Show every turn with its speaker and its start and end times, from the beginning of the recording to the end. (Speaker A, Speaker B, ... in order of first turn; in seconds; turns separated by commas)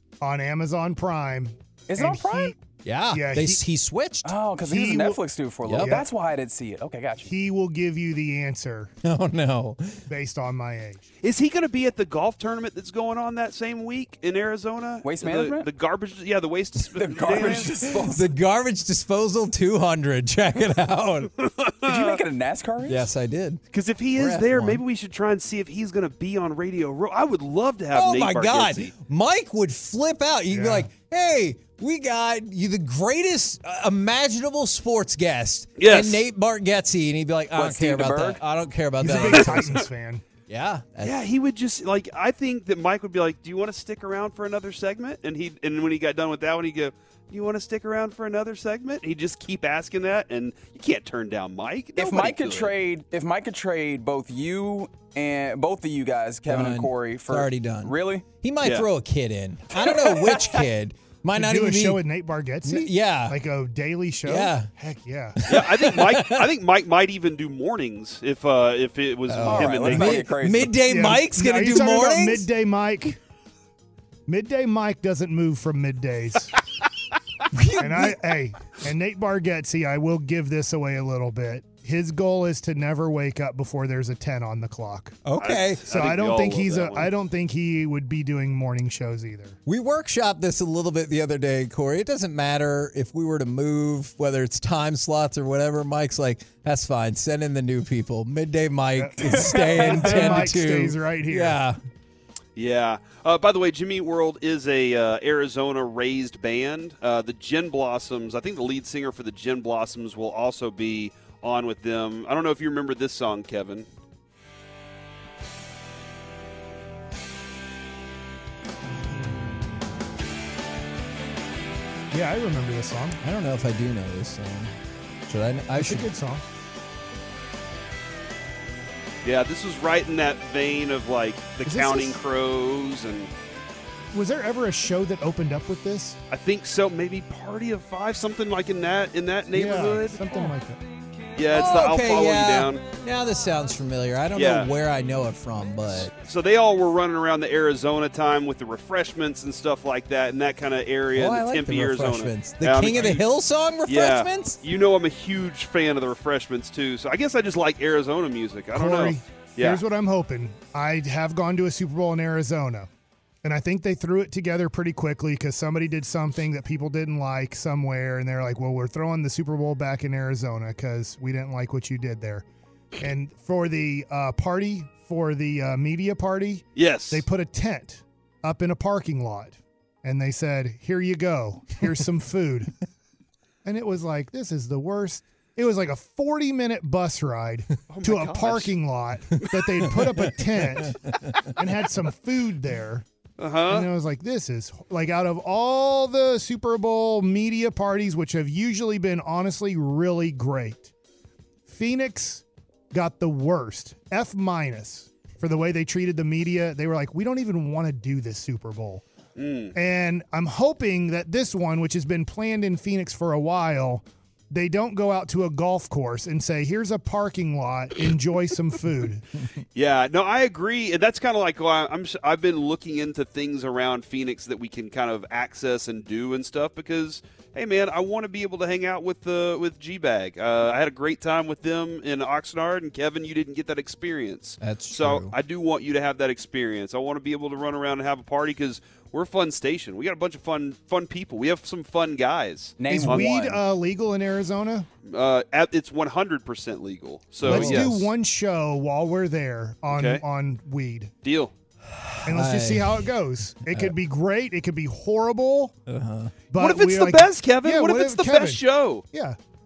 Speaker A: 0.2-2.5, Speaker B: 1.9-2.5, Speaker C: 2.8-4.3, Speaker A: 3.1-3.6, Speaker B: 4.2-7.3, Speaker A: 4.7-5.2, Speaker C: 5.6-6.0, Speaker A: 5.8-6.1, Speaker A: 7.2-8.9, Speaker C: 9.0-10.0, Speaker A: 10.1-11.0, Speaker D: 11.2-17.8, Speaker B: 15.0-15.7, Speaker B: 16.9-18.3, Speaker C: 17.4-21.3, Speaker D: 21.4-22.2, Speaker B: 21.8-23.1, Speaker C: 22.8-23.6, Speaker D: 23.7-28.9, Speaker C: 24.1-24.8, Speaker C: 27.9-39.9, Speaker A: 30.5-30.9, Speaker D: 35.8-36.2, Speaker B: 37.5-38.4, Speaker A: 39.0-40.2, Speaker C: 40.5-41.2, Speaker D: 41.0-52.7, Speaker B: 52.0-58.2, Speaker C: 56.5-62.0, Speaker B: 59.7-60.6, Speaker A: 61.3-65.4, Speaker C: 62.6-63.4, Speaker C: 64.2-64.7, Speaker C: 65.4-66.5, Speaker D: 65.5-70.3, Speaker C: 69.3-72.5, Speaker B: 69.4-70.7, Speaker A: 70.8-73.2, Speaker A: 74.3-76.5, Speaker C: 77.5-78.2, Speaker A: 77.8-85.2, Speaker C: 85.2-85.8, Speaker D: 85.4-87.1, Speaker A: 85.9-89.6, Speaker C: 89.7-101.8, Speaker A: 99.0-101.6, Speaker B: 99.2-100.5, Speaker D: 102.5-113.9, Speaker A: 122.1-123.2, Speaker C: 123.2-124.7, Speaker C: 125.2-126.1, Speaker A: 125.8-126.4, Speaker D: 129.2-133.3, Speaker A: 131.6-132.2, Speaker A: 134.1-136.2, Speaker D: 136.3-140.4, Speaker A: 139.5-140.8, Speaker D: 141.3-142.8, Speaker C: 141.5-146.1, Speaker D: 144.3-144.7, Speaker D: 146.1-153.2, Speaker C: 151.1-154.6, Speaker D: 153.8-159.8, Speaker A: 158.7-162.9, Speaker A: 163.4-172.4, Speaker A: 173.0-182.7, Speaker D: 176.8-177.2, Speaker A: 183.6-193.0, Speaker D: 187.9-188.7, Speaker D: 193.4-193.9, Speaker A: 193.7-200.9, Speaker A: 201.7-209.0, Speaker D: 209.3-209.7, Speaker A: 209.7-219.3, Speaker D: 219.7-243.2, Speaker C: 234.6-235.3, Speaker B: 242.8-243.6, Speaker A: 242.9-244.9, Speaker D: 245.0-248.1, Speaker C: 247.4-248.0, Speaker A: 247.4-251.1, Speaker D: 249.9-250.2, Speaker D: 251.2-251.5, Speaker C: 251.8-253.1, Speaker A: 252.2-255.7, Speaker C: 253.6-253.9, Speaker C: 255.8-256.3, Speaker A: 256.5-259.4, Speaker D: 256.6-259.0